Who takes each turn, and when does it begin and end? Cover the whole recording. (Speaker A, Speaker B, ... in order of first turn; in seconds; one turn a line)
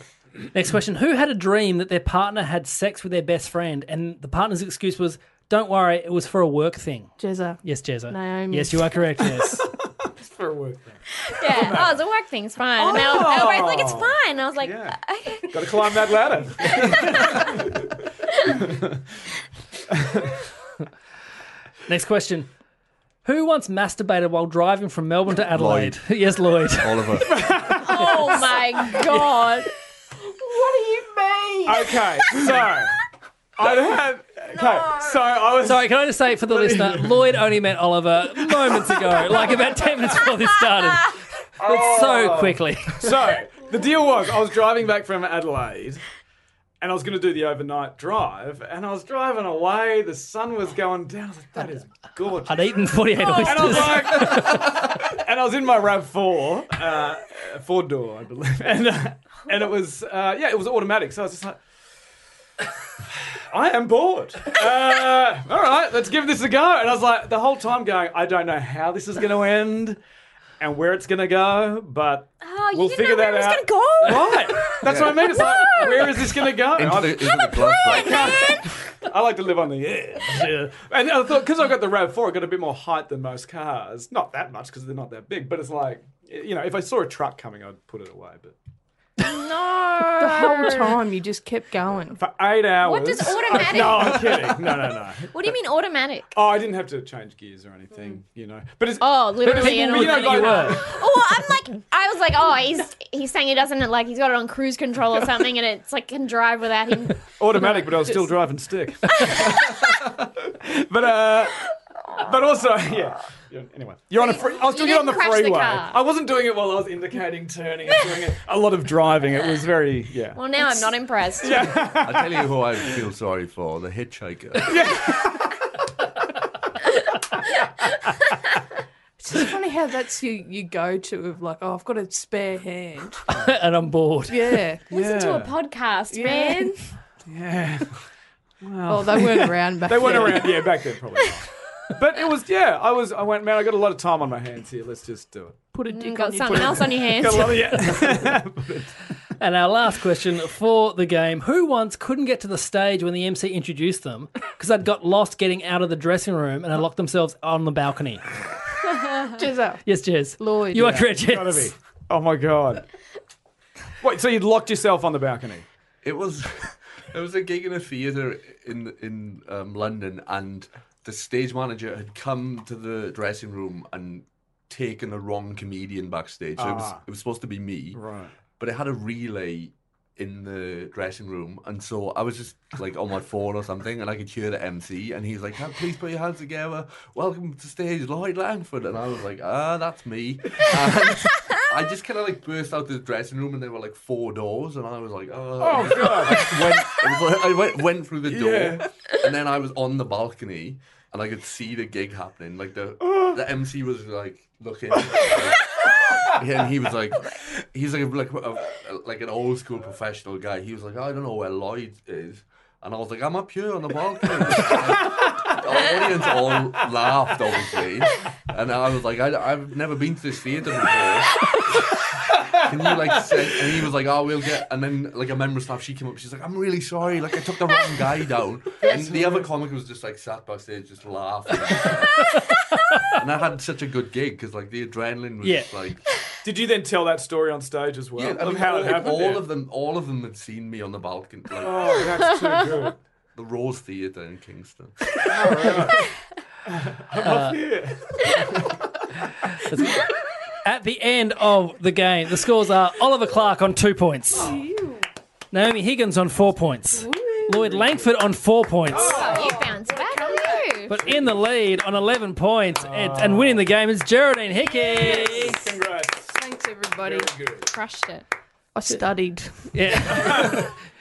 Speaker A: 0.5-9.7
Speaker B: 7.2-8.9
Speaker C: 9.7-12.0
Speaker D: 11.2-16.1
Speaker C: 12.8-17.9
Speaker D: 16.6-17.6
Speaker D: 18.3-18.7
Speaker C: 18.5-19.0
Speaker C: 19.9-20.4
Speaker A: 21.9-22.5
Speaker A: 23.2-27.2
Speaker E: 25.5-26.1
Speaker E: 26.7-27.7
Speaker C: 27.3-28.1
Speaker D: 27.8-29.7
Speaker B: 30.5-32.0
Speaker C: 31.7-32.9
Speaker C: 33.6-35.9
Speaker A: 35.6-43.2
Speaker C: 36.5-37.2
Speaker C: 38.6-38.9
Speaker C: 41.6-46.0
Speaker C: 46.8-61.6
Speaker A: 52.5-54.8
Speaker D: 53.4-53.9
Speaker C: 63.0-70.0
Speaker C: 70.6-88.5
Speaker D: 72.4-74.8
Speaker E: 74.8-75.3
Speaker D: 75.5-76.2
Speaker E: 76.7-78.4
Speaker D: 77.9-78.6
Speaker D: 89.2-90.9
Speaker B: 90.2-92.2
Speaker C: 92.2-95.3
Speaker D: 92.8-94.5
Speaker D: 95.3-96.3
Speaker C: 96.3-101.0
Speaker D: 99.0-107.3
Speaker A: 99.5-100.8
Speaker C: 107.3-120.5
Speaker D: 109.2-109.8
Speaker D: 114.2-116.0
Speaker D: 120.3-121.9
Speaker C: 121.4-122.4
Speaker E: 122.0-124.9
Speaker C: 124.6-125.5
Speaker B: 129.2-133.2
Speaker A: 133.3-134.6
Speaker B: 134.3-134.9
Speaker C: 134.9-135.6
Speaker D: 134.9-137.0
Speaker B: 136.1-136.9
Speaker C: 137.2-138.1
Speaker C: 138.6-145.7
Speaker B: 138.9-140.8
Speaker B: 145.7-147.1
Speaker D: 145.9-147.8
Speaker C: 146.6-148.9
Speaker A: 149.4-158.3
Speaker B: 159.3-159.9
Speaker A: 159.8-161.7
Speaker B: 160.4-161.1
Speaker C: 160.8-162.8
Speaker C: 164.0-165.7
Speaker E: 166.0-178.0
Speaker C: 176.6-177.0
Speaker C: 177.9-178.3
Speaker E: 178.6-221.5
Speaker C: 195.6-196.7
Speaker C: 198.3-198.9
Speaker E: 222.5-232.4
Speaker C: 228.8-229.5
Speaker A: 232.4-233.0
Speaker E: 233.1-236.1
Speaker A: 235.4-235.7
Speaker C: 236.4-239.5
Speaker E: 238.2-242.1
Speaker C: 241.6-243.0
Speaker E: 243.3-245.1
Speaker C: 245.2-246.1
Speaker C: 246.7-248.8
Speaker A: 247.2-247.6
Speaker A: 249.5-250.0
Speaker A: 250.6-254.6
Speaker C: 254.3-254.7
Speaker B: 254.3-255.1
Speaker A: 255.5-259.2
Speaker B: 256.9-257.8
Speaker C: 258.9-259.7
Speaker D: 258.9-261.0
Speaker B: 259.1-260.6
Speaker A: 260.9-265.6
Speaker C: 262.8-263.7
Speaker D: 264.5-265.3
Speaker B: 265.0-265.5
Speaker C: 265.0-266.4
Speaker B: 266.3-267.4
Speaker C: 267.0-267.7
Speaker D: 267.7-268.3
Speaker B: 268.8-270.2
Speaker A: 269.7-270.7
Speaker C: 270.1-270.6